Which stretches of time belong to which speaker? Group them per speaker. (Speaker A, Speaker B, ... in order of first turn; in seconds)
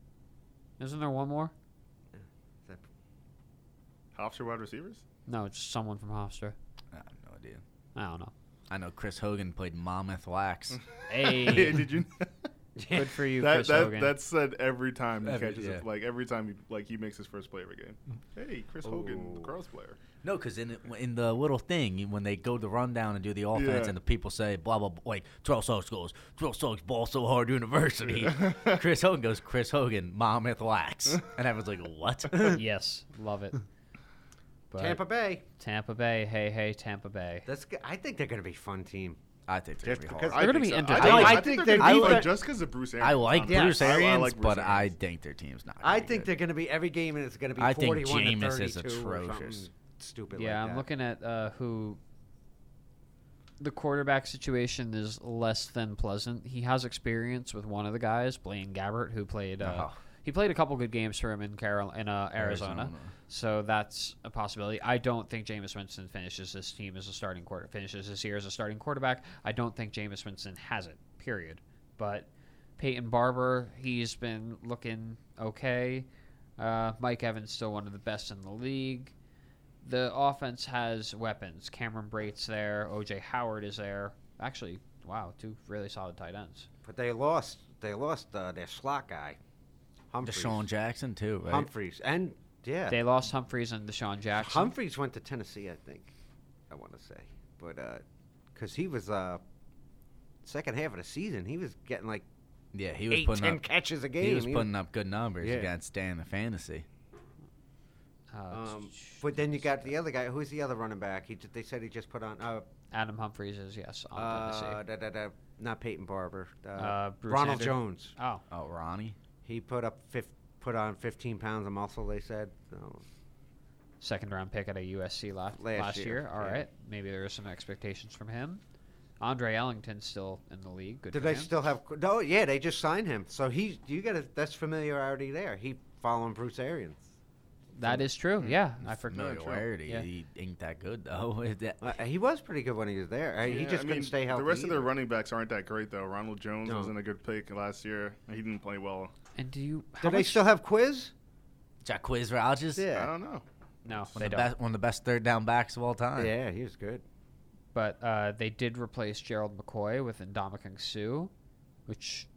Speaker A: 0.8-1.5, 5.3-6.5, 7.9-8.3, 11.1-11.9, 12.9-14.1, 32.5-33.6, 34.7-35.0, 35.6-37.5, 40.4-41.4, 50.3-52.0, 53.6-79.1, 79.8-86.7, 92.9-94.7, 108.3-109.9, 112.9-114.8, 116.8-118.4, 124.0-128.6, 129.2-131.5, 137.7-140.1, 149.3-150.4, 153.8-154.5, 157.7-161.3, 161.9-162.3
Speaker B: 4.2-5.0, 11.2-12.3, 13.3-20.0, 23.5-23.9, 40.2-44.9, 143.4-149.1, 152.9-154.1
Speaker C: 6.9-7.6, 8.7-10.8, 15.2-15.8, 20.2-32.6, 39.5-40.4, 41.0-42.4, 43.0-46.3, 47.6-49.7, 59.6-60.0, 62.4-63.1, 90.2-91.7, 102.7-103.6, 104.2-106.8, 118.5-119.2, 139.0-142.0, 151.8-152.9, 154.2-156.3
Speaker D: 12.8-13.2, 18.8-19.5, 34.8-35.4, 37.5-39.2, 39.8-42.3, 43.5-44.1, 45.8-50.9, 86.8-89.4, 90.1-90.6, 91.4-93.0, 94.4-96.1, 96.7-98.0, 98.5-99.4, 100.4-102.2, 103.1-104.7, 105.4-105.7, 108.5-112.7, 114.1-118.1, 119.4-123.0, 125.6-126.6, 131.1-137.1, 141.8-144.9, 146.7-146.9, 150.0-151.1, 152.8-153.1, 156.2-157.0